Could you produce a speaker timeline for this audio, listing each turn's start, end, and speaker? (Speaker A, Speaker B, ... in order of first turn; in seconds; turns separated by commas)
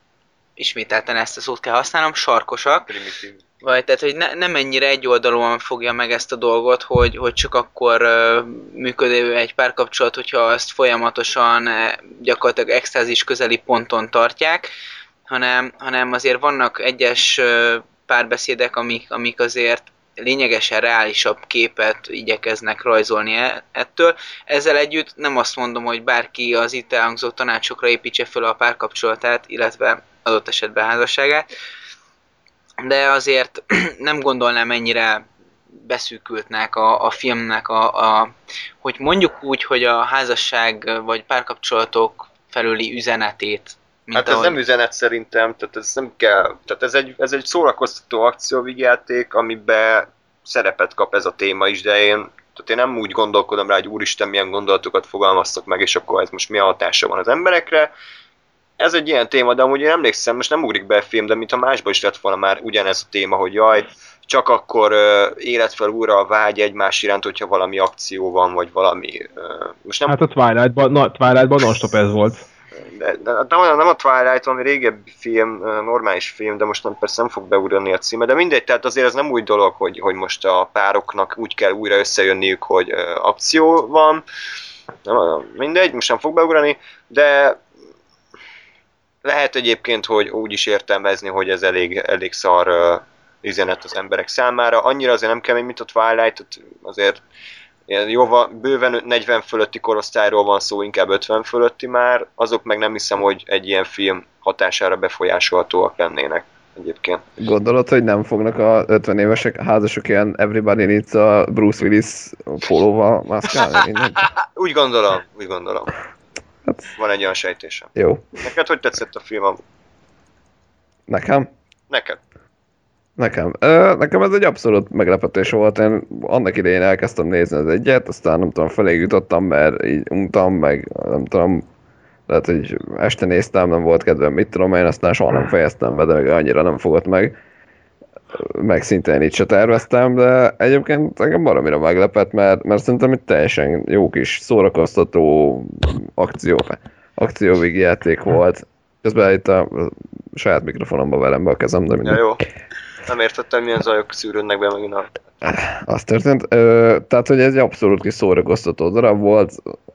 Speaker A: 0.6-2.9, Speaker B: 2.9-3.4, Speaker A: 3.6-14.7, Speaker A: 15.3-31.5, Speaker A: 32.8-44.6, Speaker B: 44.1-57.9, Speaker B: 58.8-70.2, Speaker C: 70.1-72.4, Speaker B: 72.8-84.2, Speaker B: 85.0-87.6, Speaker B: 89.2-97.2, Speaker B: 97.9-107.2, Speaker D: 107.4-114.3, Speaker B: 114.5-115.9, Speaker B: 117.0-117.9, Speaker D: 117.9-118.4, Speaker B: 118.4-119.6, Speaker D: 121.1-121.5, Speaker B: 121.9-122.2, Speaker D: 123.2-131.6, Speaker D: 132.3-137.3, Speaker D: 138.3-152.2, Speaker B: 152.0-152.4, Speaker B: 153.0-155.2, Speaker D: 155.4-159.7